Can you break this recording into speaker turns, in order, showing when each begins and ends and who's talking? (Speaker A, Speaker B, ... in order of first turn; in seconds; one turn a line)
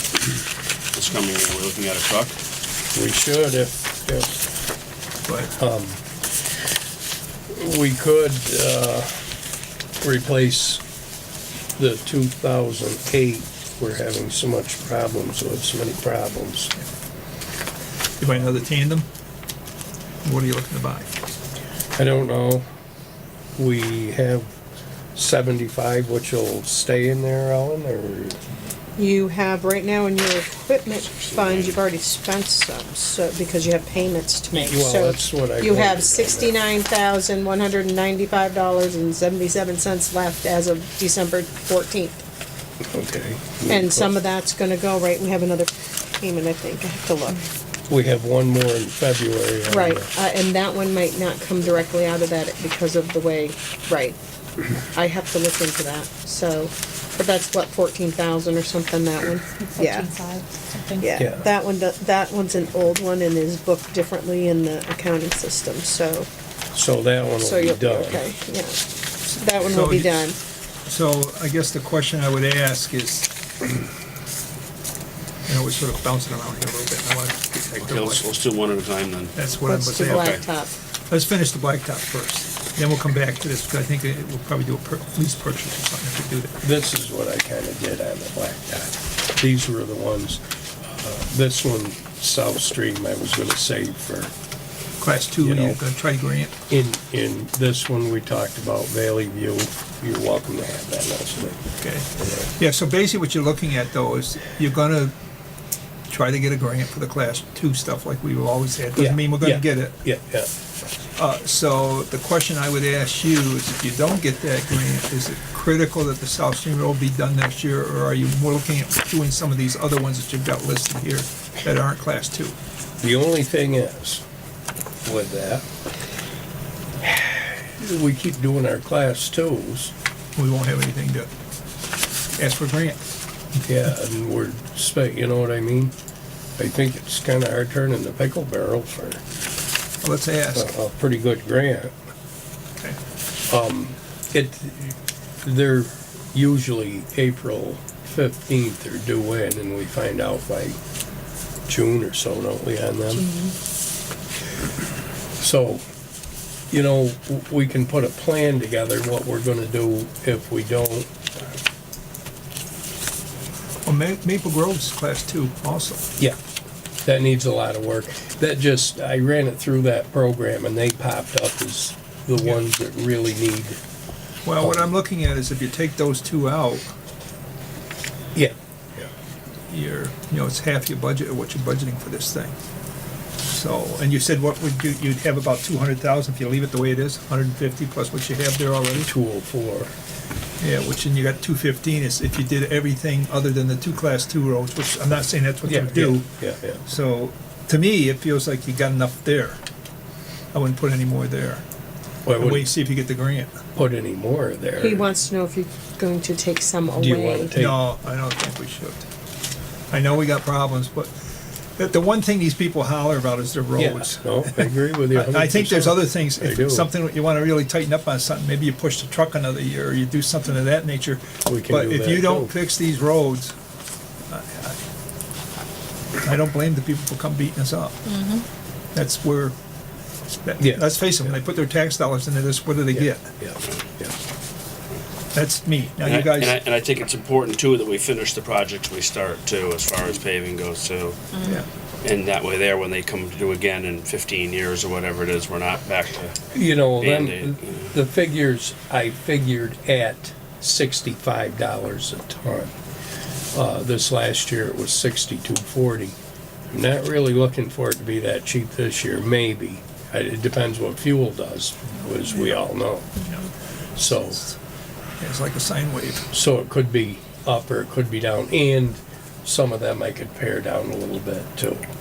Speaker A: 0.9-2.4
Speaker B: 2.9-4.4
Speaker C: 5.3-5.5
Speaker B: 5.5-6.0
Speaker B: 7.5-9.1
Speaker B: 10.0-10.8
Speaker B: 11.8-16.7
Speaker C: 18.2-19.1
Speaker C: 20.2-21.1
Speaker B: 22.0-22.7
Speaker B: 23.6-24.5
Speaker B: 25.1-28.4
Speaker D: 29.0-42.2
Speaker A: 31.2-31.8
Speaker B: 34.5-36.6
Speaker B: 42.9-44.2
Speaker D: 43.7-47.4
Speaker B: 47.9-50.1
Speaker D: 49.7-54.2
Speaker D: 54.9-60.1
Speaker E: 59.6-61.2
Speaker D: 61.0-66.3
Speaker B: 61.2-61.5
Speaker B: 66.7-68.2
Speaker D: 67.4-70.4
Speaker C: 69.7-70.3
Speaker C: 70.9-73.3
Speaker C: 75.5-78.3
Speaker A: 77.8-79.4
Speaker C: 79.4-80.4
Speaker D: 79.7-80.7
Speaker A: 80.1-80.4
Speaker C: 81.1-86.6
Speaker B: 86.6-94.3
Speaker C: 95.0-96.6
Speaker B: 95.4-95.8
Speaker B: 96.7-101.6
Speaker C: 101.8-105.1
Speaker B: 102.2-102.5
Speaker C: 106.1-110.0
Speaker B: 109.0-110.5
Speaker C: 111.2-122.6
Speaker B: 123.0-124.2
Speaker B: 125.0-125.7
Speaker B: 127.0-129.9
Speaker C: 130.4-131.3
Speaker C: 132.4-133.0
Speaker B: 133.7-135.9
Speaker B: 136.6-139.2
Speaker C: 140.0-140.7
Speaker B: 140.5-141.9
Speaker B: 143.5-150.8
Speaker B: 151.7-153.3
Speaker E: 153.2-153.5
Speaker B: 155.4-155.8
Speaker B: 156.7-161.5
Speaker C: 163.8-166.1
Speaker B: 167.0-173.8
Speaker C: 174.4-176.9
Speaker B: 174.6-174.9
Speaker B: 178.3-179.1
Speaker C: 179.7-182.6
Speaker C: 183.5-189.1
Speaker B: 189.0-189.9
Speaker C: 190.6-196.3
Speaker B: 195.7-196.9
Speaker C: 196.9-199.6
Speaker C: 200.5-201.7
Speaker B: 202.3-202.7
Speaker C: 202.4-203.6
Speaker B: 203.8-205.1
Speaker D: 204.8-207.6
Speaker B: 206.9-207.8
Speaker C: 207.5-209.1
Speaker C: 209.9-211.1
Speaker C: 211.8-223.5
Speaker B: 213.8-216.9
Speaker B: 221.5-222.6
Speaker C: 224.3-224.8
Speaker C: 226.2-228.0
Speaker D: 228.1-228.4
Speaker C: 228.9-229.6
Speaker C: 230.4-233.3
Speaker B: 230.6-230.9
Speaker B: 232.9-234.2
Speaker C: 235.3-236.6
Speaker A: 236.0-241.4
Speaker A: 242.0-247.9
Speaker B: 246.6-252.7
Speaker B: 253.5-256.2
Speaker B: 256.7-263.3
Speaker C: 262.3-262.6
Speaker C: 263.2-263.5
Speaker B: 264.0-264.4
Speaker C: 264.0-264.5
Speaker C: 265.2-266.3
Speaker B: 266.3-271.9